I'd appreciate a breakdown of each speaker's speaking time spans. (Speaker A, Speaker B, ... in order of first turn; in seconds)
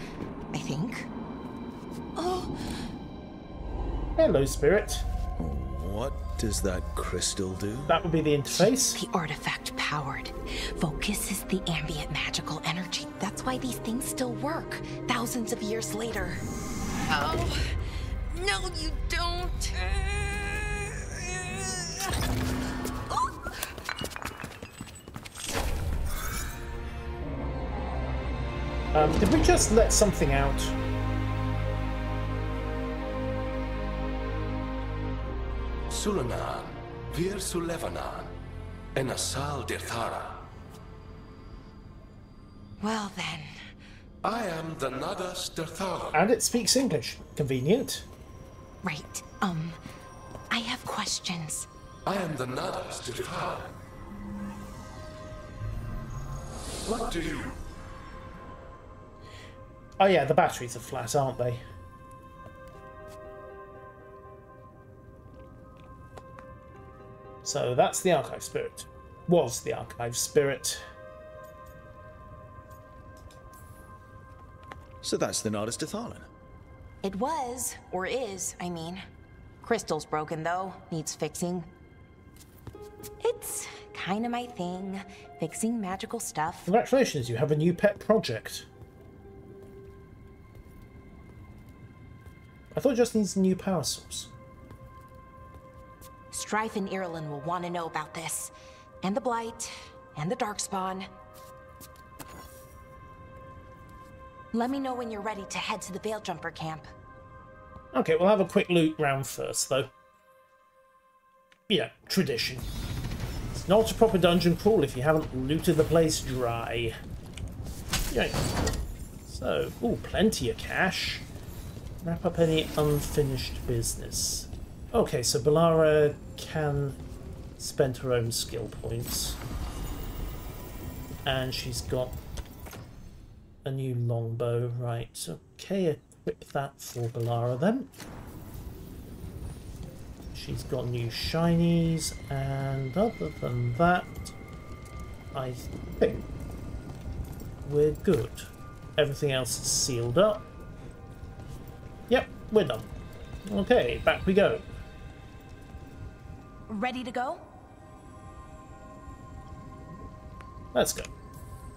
Speaker A: 0.5-1.1, 2.1-2.5, 8.5-16.4, 17.1-17.8, 18.3-22.1, 23.1-23.5, 42.8-43.5, 48.8-49.8, 50.5-51.7, 77.0-79.0, 79.6-81.7, 83.2-86.7, 96.3-101.1, 104.5-106.9, 156.7-157.4
Speaker B: 4.2-5.0, 7.9-9.0, 28.9-30.8, 46.1-48.1, 60.0-61.6, 67.4-70.8, 86.7-88.7, 92.7-94.3, 107.9-109.9, 111.7-112.7, 113.5-117.0, 118.1-118.5, 119.3-121.3, 122.0-127.0, 127.6-129.4, 131.3-132.2, 133.7-137.9, 140.3-144.3, 145.3-146.3, 147.6-150.4, 152.1-152.9, 153.4-154.7, 160.7-161.1
Speaker C: 5.4-8.0, 75.0-76.3
Speaker D: 35.9-38.2, 39.0-40.2, 44.2-46.0, 52.1-53.6, 57.0-57.3